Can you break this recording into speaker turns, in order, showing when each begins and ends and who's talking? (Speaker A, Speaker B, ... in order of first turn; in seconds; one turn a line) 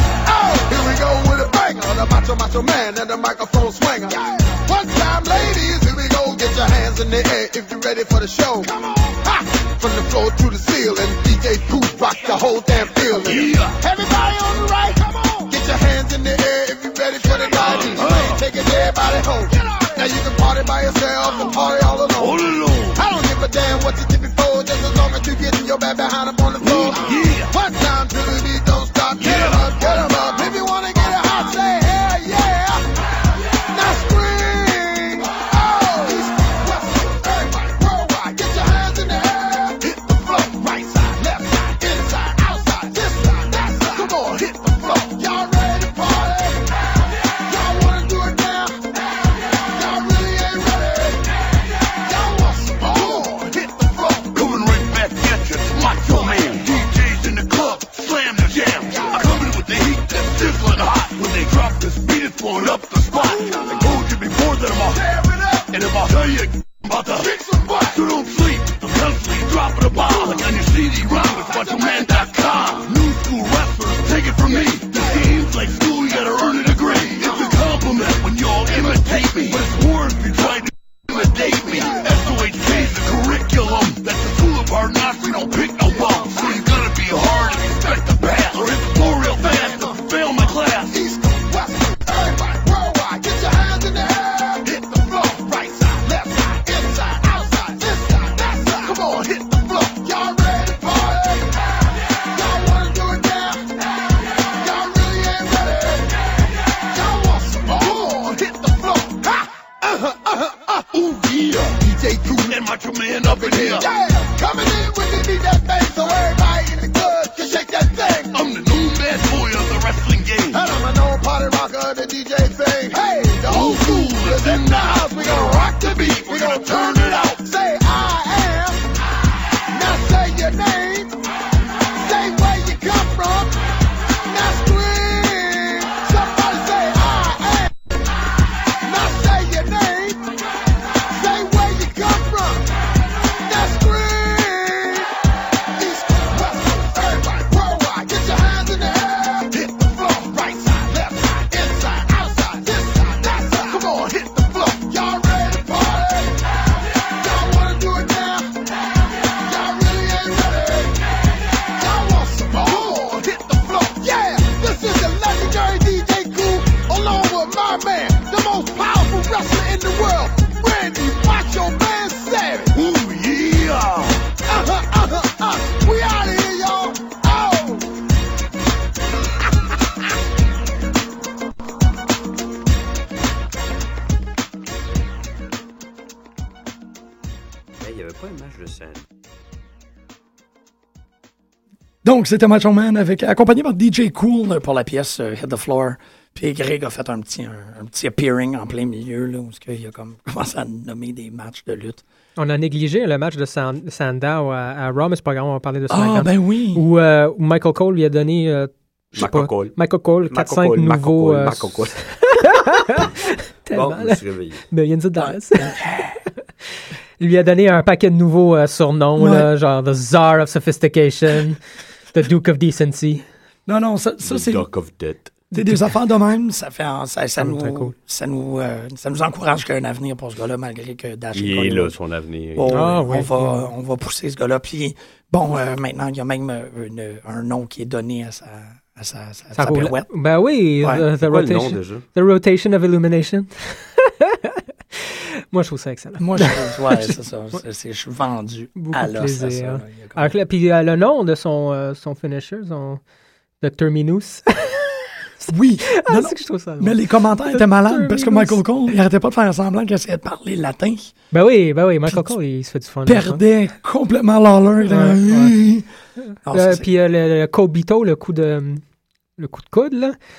Speaker A: 0.2-54.2
Speaker B: 13.1-13.8
Speaker B: 17.4-18.4
Speaker B: 22.2-23.1
Speaker B: 26.6-27.5
Speaker B: 29.2-29.9
Speaker B: 53.0-53.3
Speaker B: 54.2-65.1
Speaker A: 58.9-59.4
Speaker A: 63.1-64.0
Speaker A: 64.9-65.7
Speaker B: 65.7-67.3
Speaker A: 67.1-68.0
Speaker B: 67.9-91.0
Speaker A: 69.9-70.5
Speaker A: 71.0-72.9
Speaker A: 74.5-75.4
Speaker A: 76.9-77.5
Speaker A: 81.5-82.9
Speaker A: 85.9-90.0
Speaker A: 90.9-112.6
Speaker B: 112.5-113.9
Speaker A: 113.2-118.4
Speaker B: 118.3-120.6
Speaker A: 120.5-128.9
Speaker B: 123.5-127.1
Speaker A: 129.7-131.2
Speaker A: 131.9-137.7
Speaker A: 138.7-140.4
Speaker A: 140.9-145.2
Speaker A: 145.7-172.8
Speaker B: 172.7-174.3
Speaker A: 174.4-177.9
Speaker C: 187.8-189.1
Speaker D: 192.0-202.0
Speaker E: 202.4-215.8
Speaker D: 205.9-206.8
Speaker C: 209.2-212.0
Speaker C: 213.7-214.6
Speaker D: 215.2-216.2
Speaker E: 217.2-221.6
Speaker D: 219.2-219.5
Speaker E: 222.1-223.2
Speaker D: 223.7-224.7
Speaker C: 224.2-225.4
Speaker D: 225.5-231.9
Speaker E: 227.4-227.9
Speaker C: 231.3-232.9
Speaker D: 232.6-240.1
Speaker E: 232.7-233.7
Speaker E: 239.6-247.1
Speaker C: 241.2-242.1
Speaker D: 246.2-250.3
Speaker E: 248.8-253.0
Speaker E: 253.6-258.6
Speaker D: 255.5-261.1
Speaker E: 261.3-263.4
Speaker D: 262.1-262.3
Speaker D: 263.1-265.9
Speaker E: 264.9-265.6
Speaker E: 266.2-268.8
Speaker D: 266.4-266.9
Speaker E: 269.4-270.2